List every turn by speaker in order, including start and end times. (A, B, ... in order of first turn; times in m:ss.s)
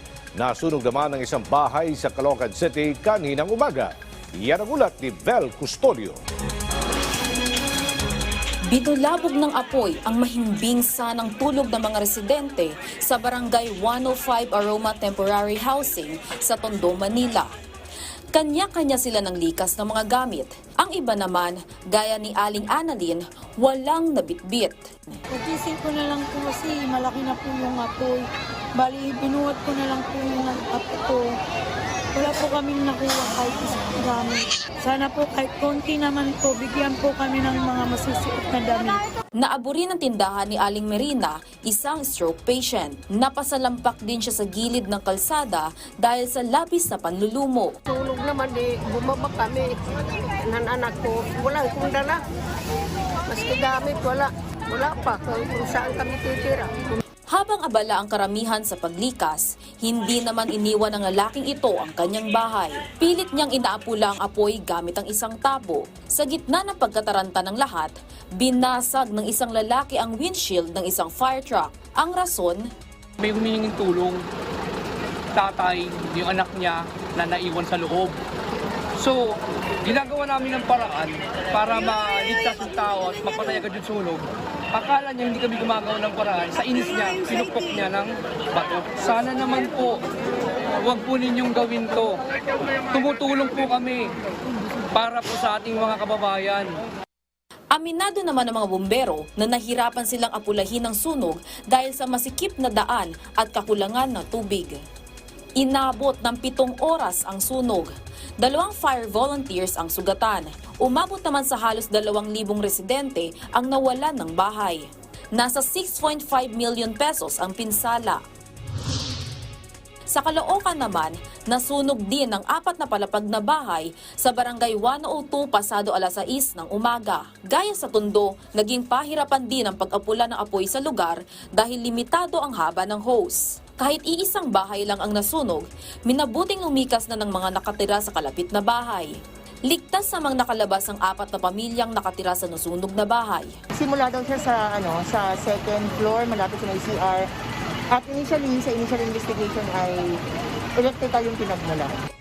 0:00.4-0:06.2 A
0:08.7-0:17.5 B
0:18.3-0:25.2 B
0:25.3-0:28.2 C
0:28.8-0:31.3 C
0:32.2-0:39.0 C
0:39.4-0:47.8 B
0:47.9-0:52.2 D
0:53.3-0:57.0 D
0:57.3-1:12.7 B
1:13.2-1:14.2 E
1:15.4-1:18.2 E
1:19.0-1:30.0 E
1:30.8-1:32.2 E
1:32.9-1:34.1 E
1:34.9-1:36.8 E
1:37.7-1:44.8 B
1:45.6-1:47.9 B
1:48.4-1:54.8 B
1:55.4-1:58.2 B
2:00.1-2:19.1 B
2:19.7-2:23.5 B
2:23.7-2:27.3 F
2:27.9-2:30.1 F
2:30.8-2:31.9 F